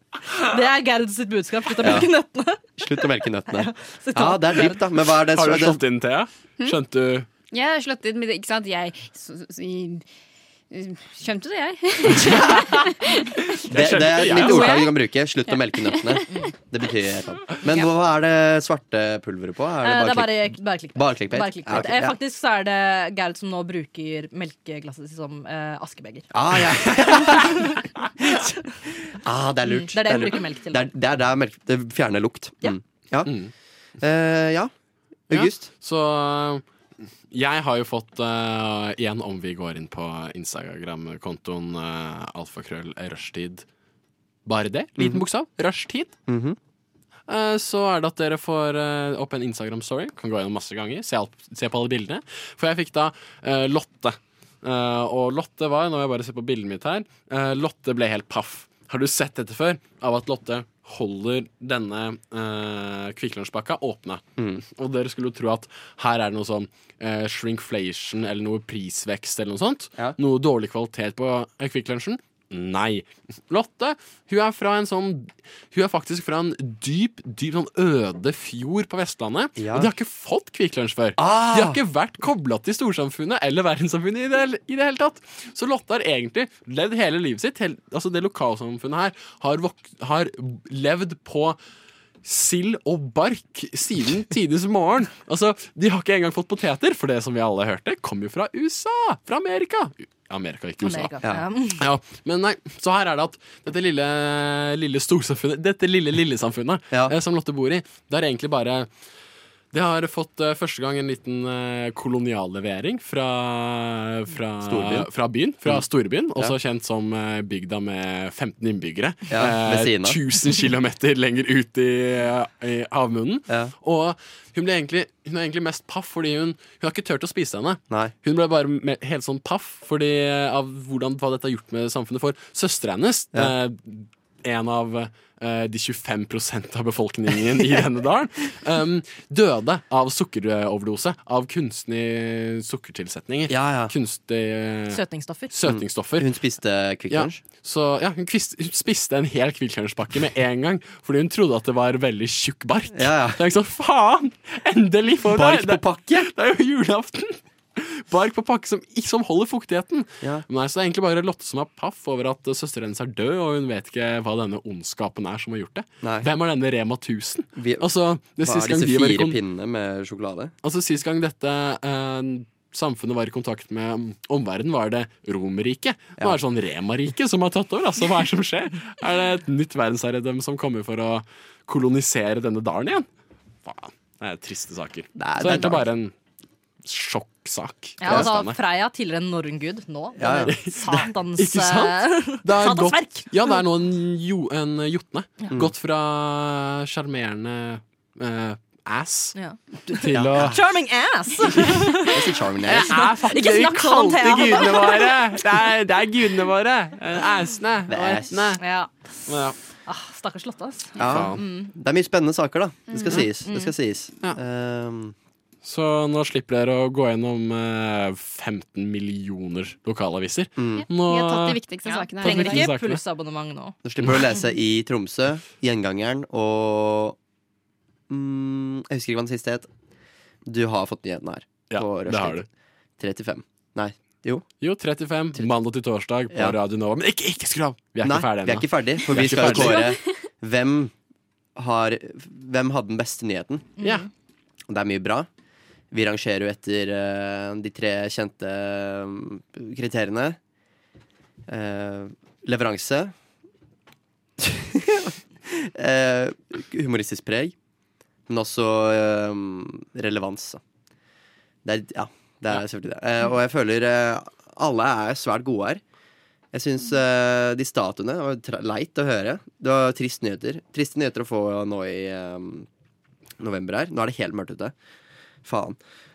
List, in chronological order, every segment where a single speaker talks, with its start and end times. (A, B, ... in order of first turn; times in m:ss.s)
0:00.4-0:04.8 A
0:01.8-0:02.1 B
0:02.8-0:05.8 B
0:05.1-0:07.3 C
0:07.5-0:10.0 D
0:10.7-0:13.4 D
0:13.5-0:14.8 C
0:13.6-0:22.2 B
0:14.4-0:14.9 D
0:19.8-0:26.3 A
0:26.3-0:28.5 B
0:27.2-0:27.8 A
0:29.2-0:33.3 B
0:29.6-0:30.9 A
0:33.2-0:33.5 C
0:34.0-0:34.7 B
0:35.3-0:35.7 B
0:35.3-0:36.6 C
0:37.3-0:43.6 C
0:44.4-0:46.1 C
0:45.0-0:45.2 B
0:46.3-0:46.6 B
0:47.3-1:31.6 C
1:19.6-1:19.9 B
1:21.2-1:21.8 B
1:32.2-1:41.2 C
1:40.8-1:41.8 A
1:41.8-1:48.9 C
1:49.7-2:26.3 C
1:54.6-1:55.1 B
1:59.3-2:00.2 B
2:23.5-2:23.9 B
2:24.9-2:25.5 A
2:25.6-2:27.4 B
2:27.1-2:49.4 C
2:32.9-2:33.4 B
2:35.2-2:36.3 B
2:46.0-2:46.3 B
2:47.6-2:47.8 B
2:48.4-2:50.5 B
2:50.6-3:03.1 C
3:03.6-3:06.1 C
3:05.2-3:05.8 B
3:06.8-3:08.6 C
3:08.0-3:13.6 A
3:10.2-3:11.1 B
3:10.5-3:19.3 C
3:19.3-3:25.1 A
3:19.9-3:20.6 B
3:20.0-3:20.6 C
3:21.5-3:22.0 C
3:22.0-3:23.1 B
3:22.6-3:28.6 C
3:27.9-3:28.3 B
3:28.6-3:28.9 A
3:29.3-3:29.6 C
3:29.8-3:31.7 A
3:31.0-3:35.1 B
3:31.0-3:31.4 C
3:33.4-3:33.7 A
3:35.6-3:41.6 C
3:40.6-3:40.9 B
3:40.7-3:42.7 D
3:41.8-3:43.8 A
3:42.2-3:43.0 C
3:43.8-3:47.2 B
3:48.1-3:49.7 B
3:50.4-3:52.4 B
3:51.7-3:52.5 C
3:53.0-3:54.4 B
3:54.6-3:59.9 C
3:56.3-3:56.6 B
3:58.0-4:00.9 B
4:01.6-4:03.7 B
4:03.8-4:04.1 A
4:03.8-4:04.1 C
4:04.7-4:05.3 B
4:05.9-4:10.4 B
4:11.5-4:13.1 B
4:14.4-4:17.5 B
4:18.3-4:20.6 B
4:21.6-4:25.8 B
4:26.5-4:32.7 B
4:33.4-4:34.7 B
4:35.4-4:35.8 B